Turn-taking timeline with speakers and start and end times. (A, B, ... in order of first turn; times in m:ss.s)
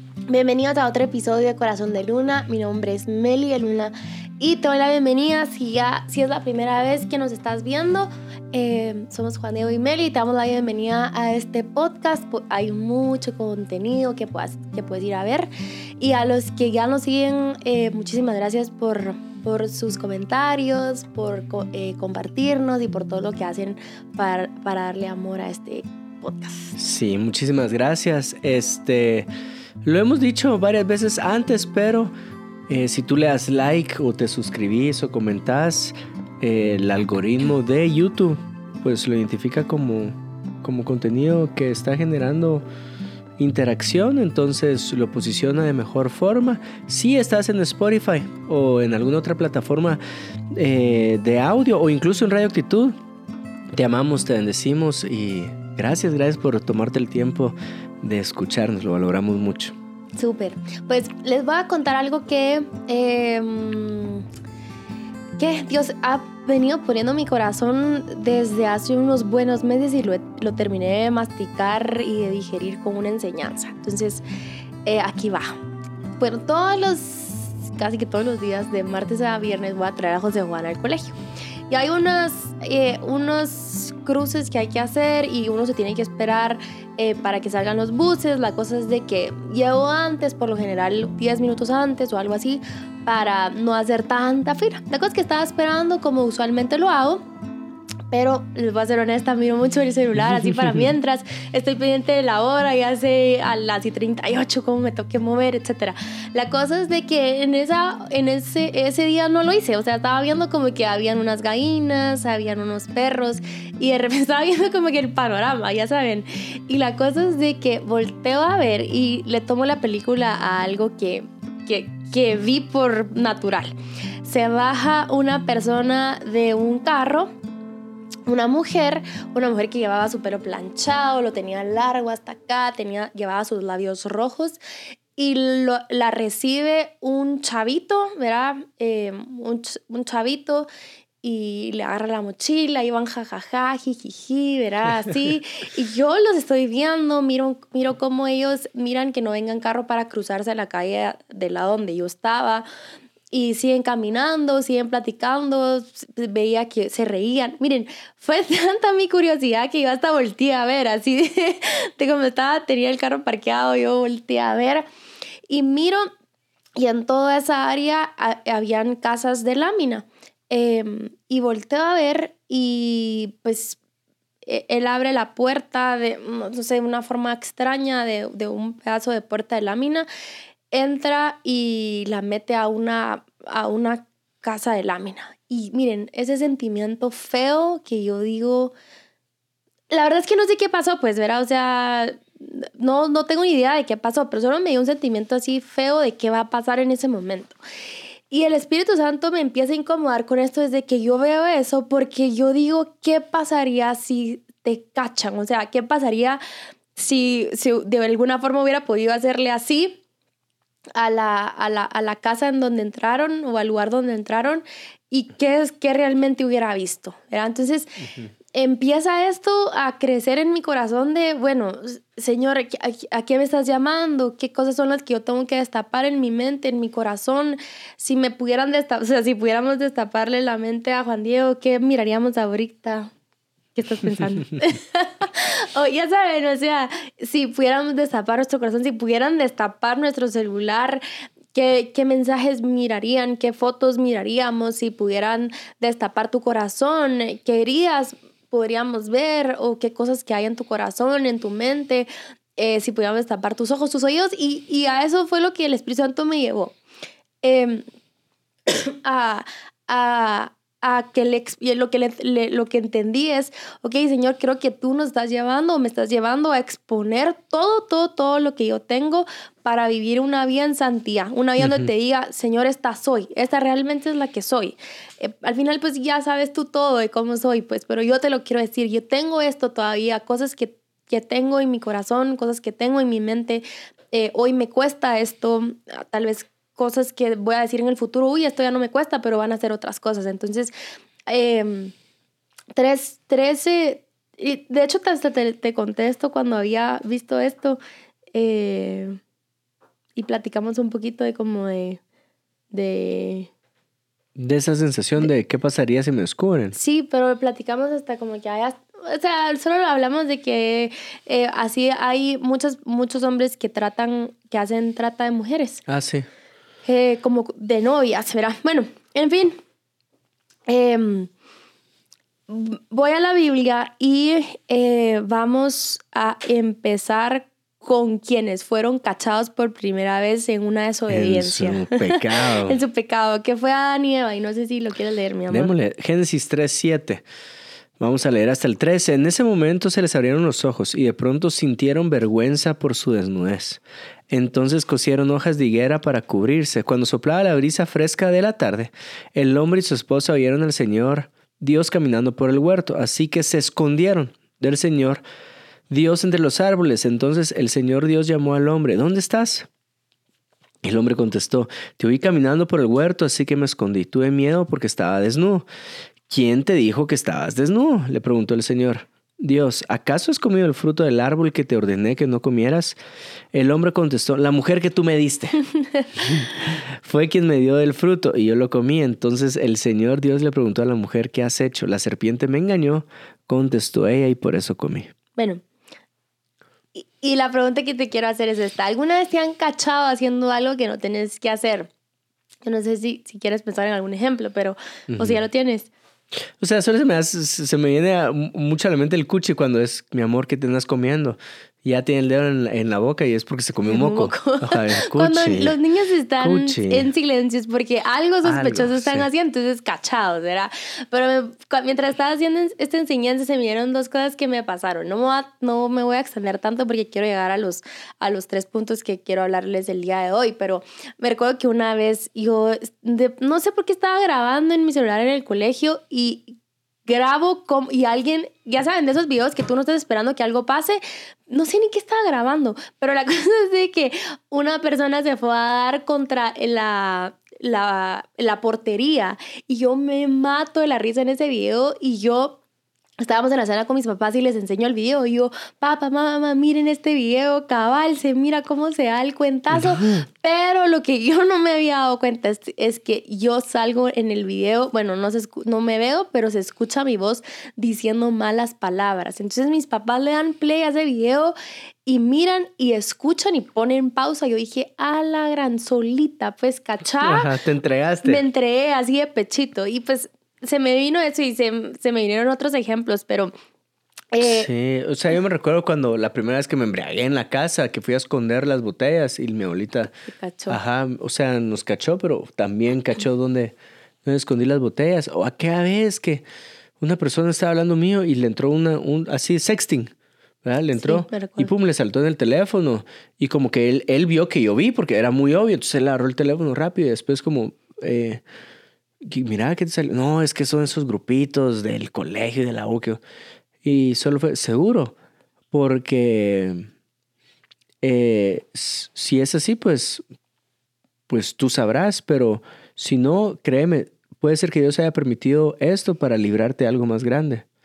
0:00.3-0:26.8 A
0:26.8-0:29.3 B
0:29.8-0:32.1 B
0:32.7-0:42.6 B
0:43.4-0:50.0 B
0:50.5-0:53.0 B
0:53.7-0:59.7 B
1:00.2-1:04.3 A
1:05.4-1:14.2 A
1:14.8-1:15.6 A
1:16.2-1:21.2 A
1:21.7-1:37.2 A
1:38.1-2:07.3 A
1:40.5-1:40.8 B
2:08.3-2:14.6 A
2:15.2-2:20.7 A
2:21.2-2:32.7 A
2:33.3-2:44.9 A
2:45.5-2:46.1 A
2:46.8-2:53.8 A
2:54.4-3:00.1 A
3:00.7-3:08.8 A
3:09.9-3:17.6 A
3:18.3-3:26.4 A
3:27.0-3:30.0 A
3:31.0-3:53.1 A
3:53.8-4:01.0 A
4:01.5-4:16.8 A
4:17.4-4:17.9 A
4:18.7-4:50.7 A
4:31.6-4:31.9 B
4:51.3-4:51.9 A
4:52.7-4:57.8 A
4:58.3-4:59.2 A
5:00.2-5:02.0 A
5:02.7-5:03.5 A
5:04.4-5:06.8 B
5:06.7-5:15.8 A
5:15.9-5:16.3 B
5:16.9-5:19.6 A
5:20.7-5:21.3 A
5:22.5-5:35.7 A
5:31.1-5:32.8 B
5:35.5-5:37.2 B
5:38.0-5:55.2 B
5:55.9-5:59.7 B
6:00.8-6:05.7 B
6:06.3-6:13.0 B
6:13.5-6:15.6 B
6:15.8-6:16.1 A
6:16.2-6:25.1 B
6:25.4-6:25.6 A
6:27.0-6:31.9 A
6:32.6-6:35.9 A
6:35.1-6:35.4 B
6:36.6-6:45.8 B
6:43.9-7:06.6 A
6:46.4-6:47.1 B
6:48.4-6:49.3 B
7:07.1-7:22.6 A
7:23.2-7:41.6 A
7:29.7-7:30.2 B
7:42.1-7:47.5 A
7:47.2-7:48.4 B
7:48.2-7:53.5 A
7:54.3-7:54.7 A
7:54.4-8:00.2 B
8:00.3-8:00.8 A
8:00.7-8:06.4 B
8:07.0-8:10.1 B
8:10.6-8:18.4 B
8:11.0-8:11.7 A
8:19.2-8:23.2 B
8:23.8-8:25.2 B
8:25.7-8:26.9 B
8:28.0-8:30.2 B
8:31.3-8:37.6 B